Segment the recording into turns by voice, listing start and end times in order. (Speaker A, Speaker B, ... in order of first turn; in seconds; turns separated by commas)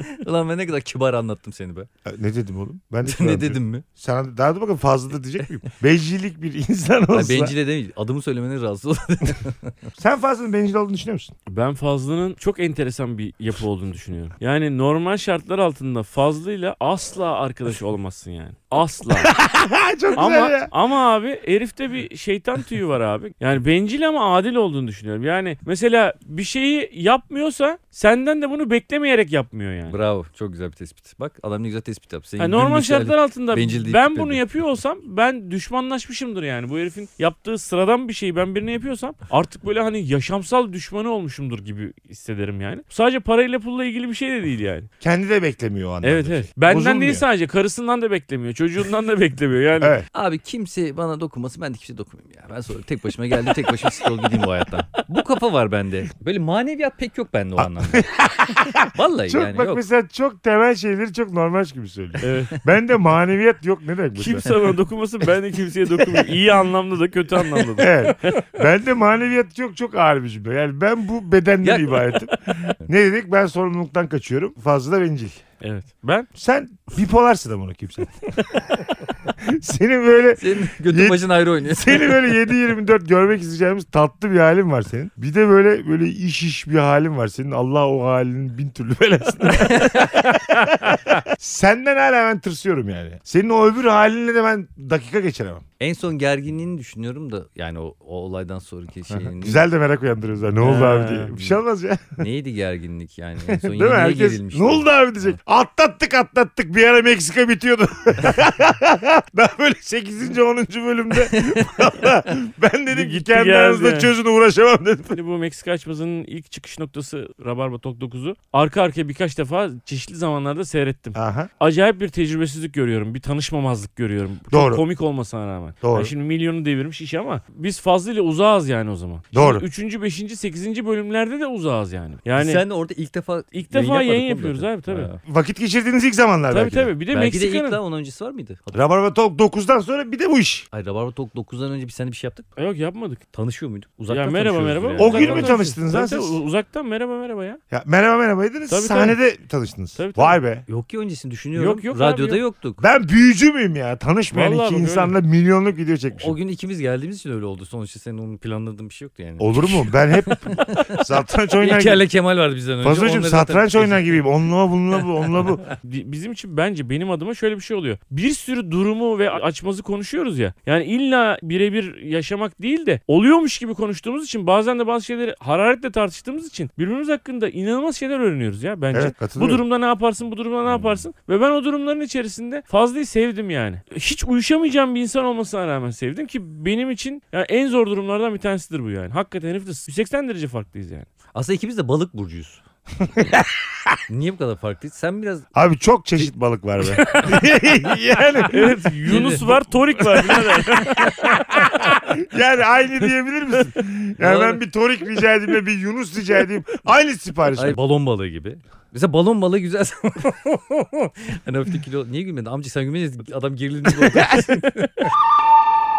Speaker A: 0.2-1.9, Speaker B: 2.0-7.5, Speaker A: 3.0-3.9, Speaker A: 7.1-9.8, Speaker B: 10.0-11.3, Speaker C: 11.5-19.3, Speaker B: 19.1-20.7, Speaker C: 20.2-29.9, Speaker A: 29.9-34.4, Speaker C: 32.4-44.9, Speaker B: 45.0-47.2, Speaker C: 46.0-50.0, Speaker B: 49.8-50.1, Speaker A: 50.1-58.1, Speaker B: 57.6-64.5, Speaker A: 58.9-59.8, Speaker C: 62.2-62.5, Speaker C: 64.2-68.3, Speaker B: 67.8-75.4, Speaker A: 71.6-72.2, Speaker C: 75.6-76.3, Speaker B: 76.4-95.7, Speaker A: 80.4-82.2, Speaker A: 89.8-90.1, Speaker A: 95.8-99.6, Speaker B: 99.1-102.2, Speaker C: 100.6-101.3, Speaker A: 102.2-105.4, Speaker B: 103.5-115.2, Speaker C: 112.9-114.1, Speaker C: 115.1-132.6, Speaker B: 121.2-121.5, Speaker B: 124.5-124.8, Speaker B: 125.8-126.1, Speaker B: 129.3-129.7, Speaker A: 132.3-135.2, Speaker C: 133.5-135.1, Speaker B: 135.2-136.9, Speaker C: 136.5-137.8, Speaker A: 137.1-138.8, Speaker B: 138.7-140.7, Speaker A: 140.7-142.5, Speaker C: 142.6-143.2, Speaker A: 143.3-145.6, Speaker C: 144.1-147.6, Speaker B: 145.0-146.4, Speaker B: 147.7-150.7, Speaker C: 148.7-149.2, Speaker C: 150.0-150.4, Speaker A: 150.7-152.8, Speaker C: 151.6-152.4, Speaker B: 152.8-156.3, Speaker C: 154.3-155.2, Speaker A: 156.2-161.0, Speaker B: 159.4-162.1, Speaker A: 161.6-164.2, Speaker B: 162.8-165.6, Speaker C: 165.8-191.1, Speaker B: 178.9-179.6, Speaker A: 180.7-181.0, Speaker A: 191.3-192.6, Speaker B: 193.0-194.0, Speaker A: 194.1-195.4, Speaker B: 195.6-207.8, Speaker C: 197.0-197.3, Speaker C: 198.5-201.8, Speaker A: 199.1-199.6, Speaker A: 204.2-204.6, Speaker A: 207.5-214.9, Speaker B: 213.9-214.6